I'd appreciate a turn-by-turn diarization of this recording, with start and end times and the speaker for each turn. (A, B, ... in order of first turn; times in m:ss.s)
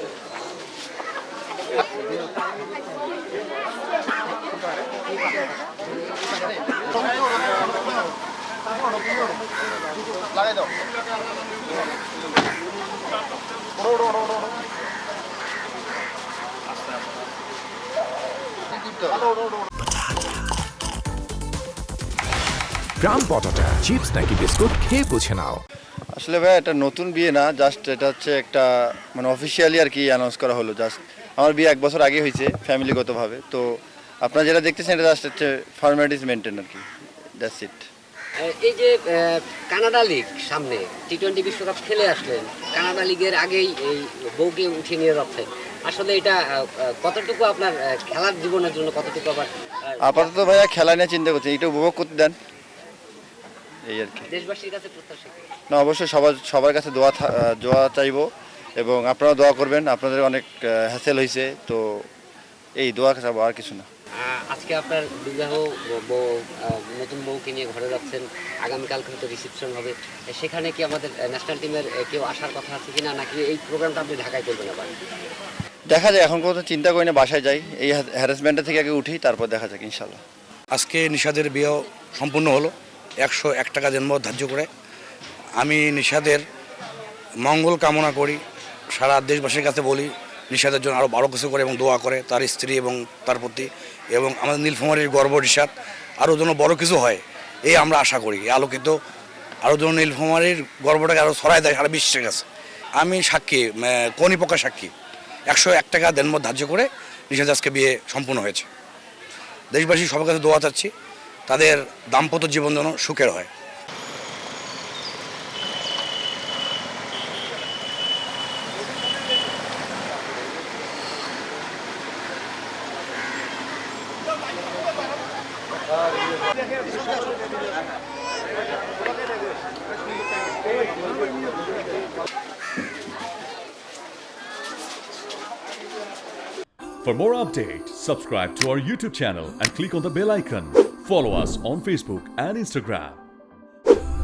0:23.0-0:25.6 A
0:26.2-0:36.8 B
0:37.4-0:37.8 B
0:38.4-0:50.4 C
0:50.0-0:52.4 B
0:53.9-0:54.3 B
0:54.3-0:55.5 C
0:55.7-0:58.3 B
0:58.8-1:02.1 B
1:02.8-1:03.8 B
1:04.2-1:15.0 C
1:15.9-1:20.2 B
1:20.7-1:24.7 D
1:25.6-1:26.4 D
1:27.4-1:28.4 D
1:28.9-1:38.9 D
1:39.6-1:42.4 D
1:43.0-1:44.9 D
1:45.5-1:48.7 D
1:49.7-1:50.9 D
1:51.5-1:53.5 D
2:17.0-2:23.2 E